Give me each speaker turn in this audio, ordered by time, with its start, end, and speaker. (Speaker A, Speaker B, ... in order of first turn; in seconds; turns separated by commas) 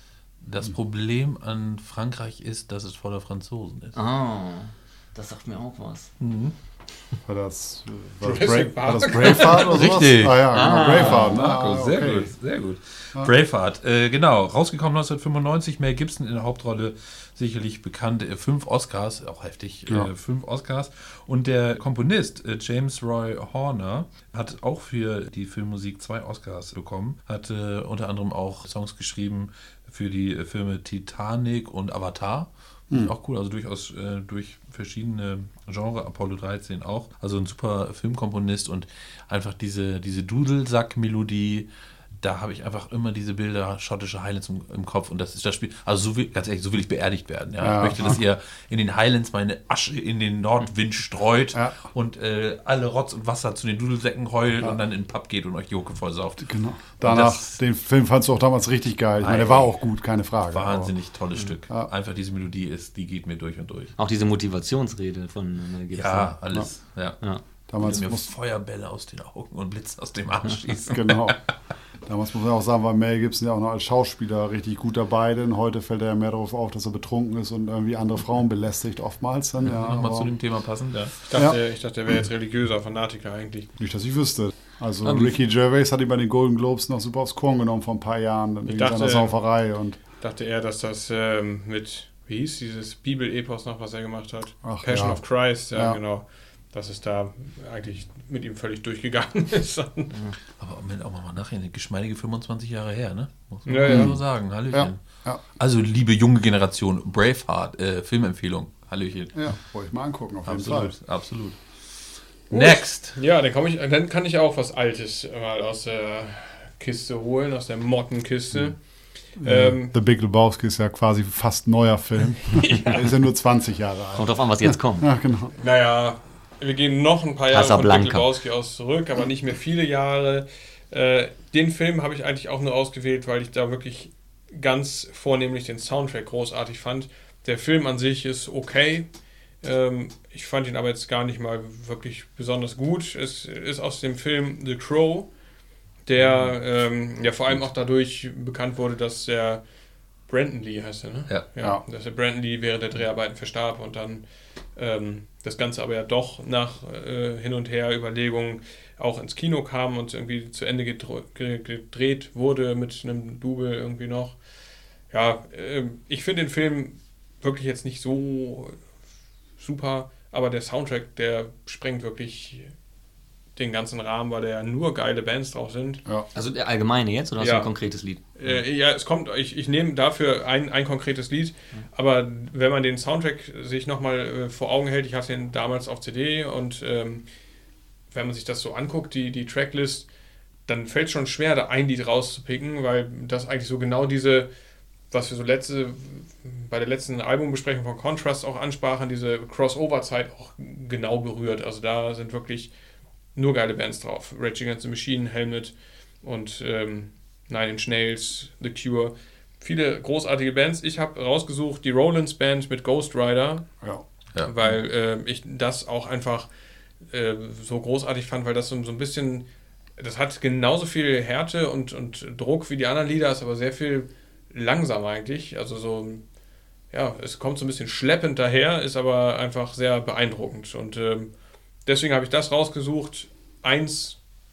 Speaker A: 0.4-4.0, Speaker B: 3.9-6.1, Speaker A: 6.2-6.5, Speaker C: 7.2-12.3, Speaker D: 8.2-10.0, Speaker A: 9.6-41.7, Speaker B: 10.5-11.4, Speaker A: 42.2-57.5, Speaker C: 47.6-48.2, Speaker C: 56.4-60.9, Speaker A: 59.2-59.7, Speaker A: 60.5-63.9, Speaker B: 64.0-66.3, Speaker A: 65.9-71.3, Speaker C: 67.7-68.3, Speaker C: 70.8-71.4, Speaker C: 72.0-80.3, Speaker A: 79.6-81.5, Speaker D: 81.2-83.7, Speaker C: 83.8-90.0, Speaker D: 88.7-89.4, Speaker D: 90.2-100.1, Speaker C: 94.6-96.0, Speaker A: 100.5-109.5, Speaker D: 103.7-104.1, Speaker C: 103.8-105.4, Speaker C: 109.3-110.9, Speaker A: 110.4-113.2, Speaker D: 112.5-119.9, Speaker C: 119.3-125.5, Speaker D: 122.5-123.1, Speaker B: 124.1-125.1, Speaker D: 125.6-145.3, Speaker B: 127.5-128.3, Speaker D: 146.0-149.7, Speaker A: 146.2-146.5, Speaker D: 150.2-164.4, Speaker D: 165.1-168.8, Speaker D: 169.6-172.7, Speaker D: 173.6-176.0, Speaker B: 176.3-178.2, Speaker D: 177.4-177.7, Speaker D: 178.3-187.3, Speaker D: 188.1-190.1, Speaker D: 190.7-194.5, Speaker D: 195.1-202.7, Speaker D: 203.3-213.7, Speaker A: 214.3-214.7, Speaker D: 214.4-216.5, Speaker D: 217.1-219.4, Speaker D: 220.0-226.2, Speaker D: 226.9-231.3, Speaker D: 231.8-234.2